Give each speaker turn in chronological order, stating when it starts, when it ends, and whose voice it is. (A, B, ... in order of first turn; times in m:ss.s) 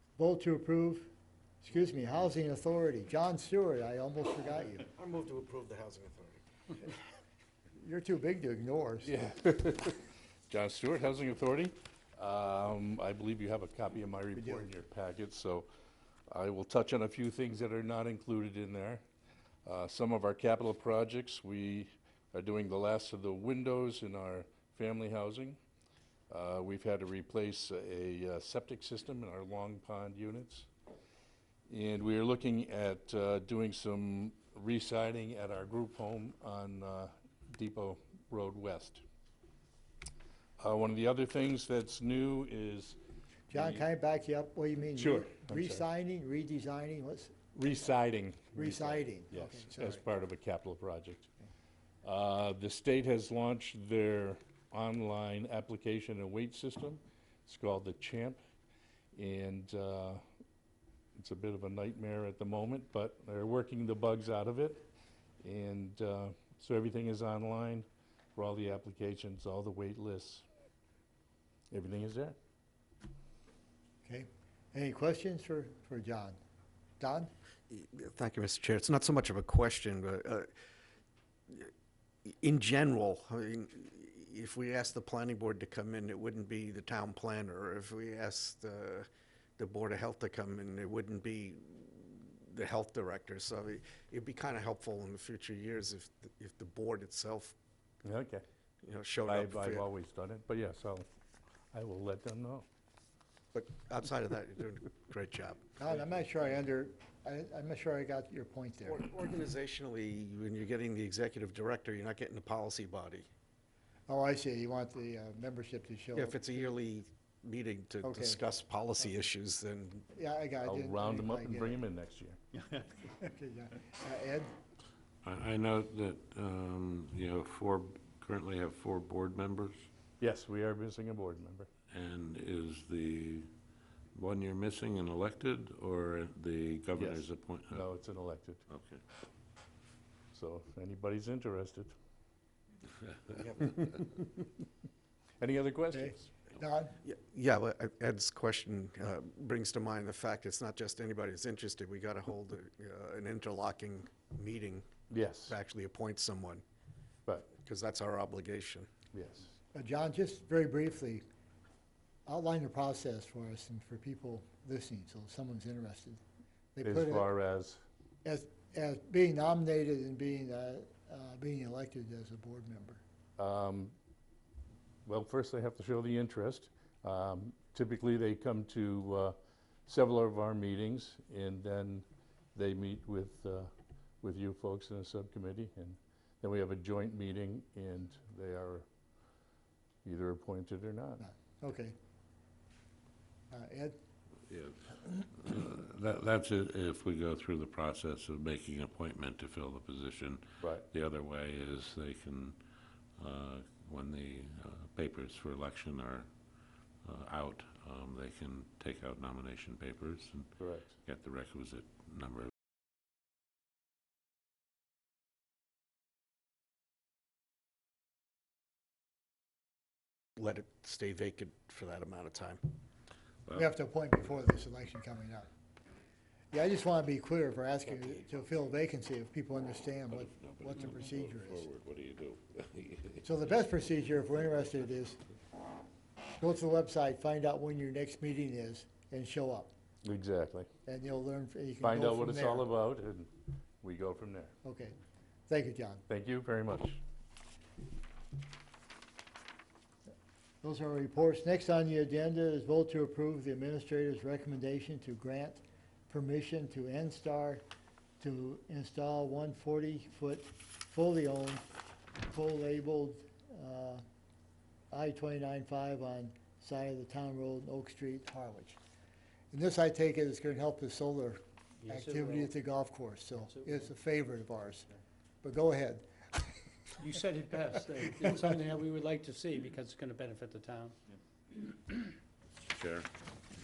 0:00.2-0:04.9 A
0:04.9-0:06.4 B
0:07.8-0:09.1 A
0:09.0-0:15.7 C
0:14.4-0:14.7 A
0:16.3-0:19.0 C
0:19.6-0:25.6 C
0:26.3-0:30.7 C
0:31.7-0:39.0 C
0:40.6-0:43.0 C
0:43.5-0:47.4 A
0:43.5-0:43.8 C
0:45.0-0:45.8 C
0:47.5-0:51.3 C
0:48.6-0:50.0 A
0:52.0-0:58.4 C
0:59.1-1:00.2 C
1:01.2-1:04.8 C
1:05.4-1:10.4 C
1:11.7-1:12.4 C
1:14.0-1:16.4 A
1:17.0-1:17.3 A
1:17.7-1:20.5 B
1:22.2-1:37.5 B
1:38.0-1:38.4 C
1:38.8-1:39.9 B
1:39.2-1:41.1 C
1:41.7-1:42.6 C
1:43.5-1:45.7 B
1:45.8-1:49.1 A
1:48.8-1:53.3 B
1:54.1-1:56.4 A
1:56.1-2:00.1 B
1:58.0-1:58.4 A
2:00.1-2:01.8 A
2:00.6-2:02.4 C
2:03.0-2:04.5 A
2:05.2-2:09.9 D
2:10.2-2:11.7 C
2:11.9-2:13.5 D
2:14.1-2:17.8 D
2:16.9-2:18.7 C
2:18.7-2:19.0 D
2:20.3-2:21.9 C
2:23.3-2:24.0 B
2:25.4-2:26.3 C
2:25.9-2:27.0 A
2:27.0-2:34.8 B
2:35.1-2:35.6 C
2:35.5-2:36.6 B
2:37.5-2:38.9 B
2:39.1-2:39.5 C
2:39.7-2:41.2 A
2:42.2-2:46.2 A
2:46.7-2:47.3 A
2:46.8-2:47.8 C
2:48.2-2:53.0 A
2:53.4-2:53.9 C
2:55.0-3:03.7 C
3:04.2-3:08.9 C
3:10.0-3:11.2 C
3:11.2-3:11.9 A
3:13.5-3:14.0 A
3:14.5-3:22.6 D
3:20.6-3:20.8 C
3:23.2-3:26.3 D
3:27.0-3:32.5 D
3:30.6-3:31.0 C
3:40.4-3:42.6 B
3:43.4-3:43.7 D
3:43.5-3:45.5 A
3:46.5-3:51.6 A
3:50.1-3:53.2 D
3:53.2-3:55.2 A
3:56.4-3:59.7 A
4:00.0-4:00.7 C
4:00.8-4:02.7 A
4:01.8-4:04.5 C
4:04.6-4:04.9 A
4:05.5-4:06.0 A
4:06.1-4:07.0 C
4:10.6-4:17.6 A
4:18.2-4:21.6 A
4:22.2-4:24.0 A
4:24.9-4:28.8 A
4:29.5-4:34.9 A
4:31.8-4:32.5 E
4:33.4-4:33.8 E
4:35.4-4:36.1 A
4:37.0-4:41.0 E
4:42.6-4:43.1 D